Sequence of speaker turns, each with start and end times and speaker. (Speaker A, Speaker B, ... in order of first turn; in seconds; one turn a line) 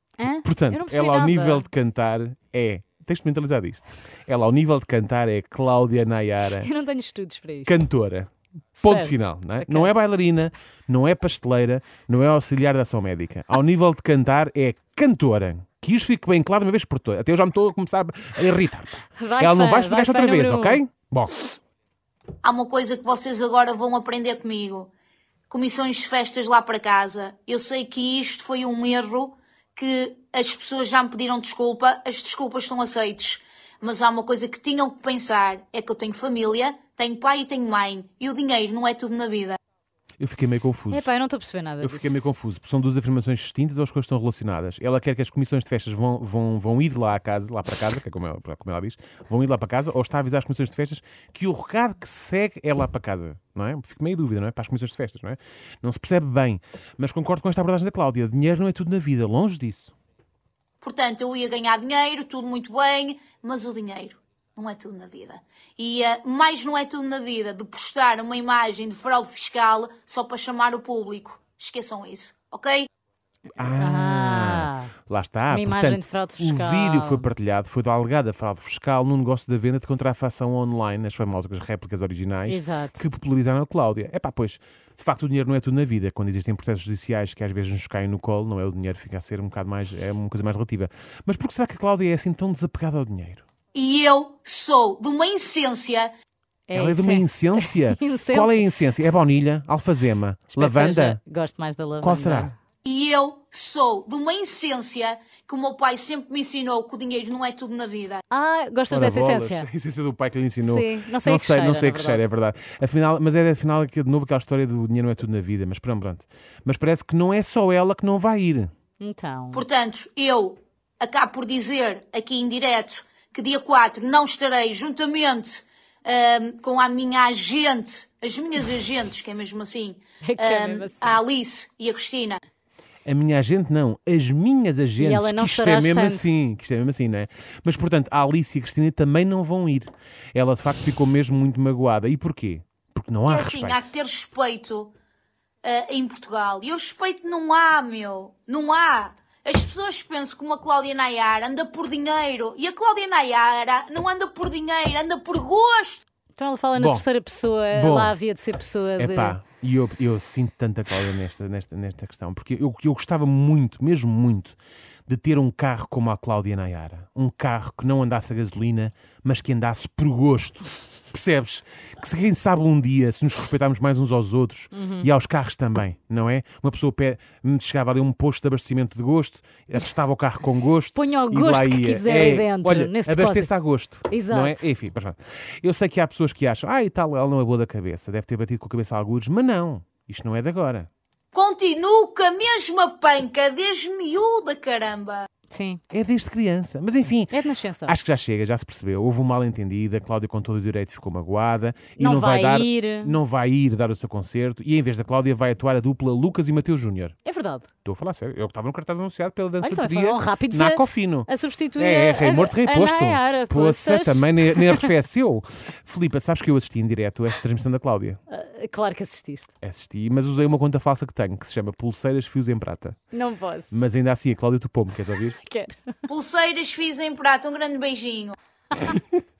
Speaker A: 0.2-1.6
Speaker B: 0.4-6.7
Speaker A: 6.5-7.8
Speaker B: 7.7-21.5
Speaker A: 8.8-9.9
Speaker A: 19.1-20.8
Speaker C: 22.4-24.9
Speaker C: 25.5-39.6
Speaker B: 40.2-41.1
Speaker A: 40.9-42.3
Speaker B: 41.8-59.9
Speaker C: 60.8-72.9
Speaker B: 73.5-93.4
Speaker A: 73.6-74.9
Speaker A: 75.5-77.3
Speaker A: 82.5-83.0
Speaker C: 93.7-96.1
Speaker A: 96.7-98.6
Speaker B: 96.7-101.2
Speaker A: 100.5-102.5
Speaker B: 102.0-102.5
Speaker C: 102.8-108.2
Speaker A: 108.3-109.7
Speaker B: 108.9-118.7
Speaker A: 110.6-112.2
Speaker A: 119.0-119.6
Speaker C: 119.5-132.4
Speaker A: 130.2-131.2
Speaker B: 133.1-143.8
Speaker A: 135.0-136.3
Speaker C: 143.3-144.9
Speaker C: 145.6-156.0
Speaker A: 156.4-159.4
Speaker B: 156.8-157.0
Speaker B: 157.7-158.2
Speaker B: 159.0-164.6
Speaker B: 165.1-190.9
Speaker A: 174.7-175.1
Speaker A: 180.9-183.5
Speaker A: 184.1-184.6
Speaker C: 191.3-195.3
Speaker A: 195.5-195.8
Speaker B: 195.9-207.2
Speaker A: 197.3-198.0
Speaker A: 202.0-203.2
Speaker A: 207.2-207.7
Speaker B: 207.8-218.2
Speaker A: 209.6-214.9
Speaker A: 218.3-219.5
Speaker B: 219.6-223.0
Speaker A: 223.1-223.8
Speaker B: 223.7-225.4
Speaker A: 225.2-225.9
Speaker C: 226.1-228.3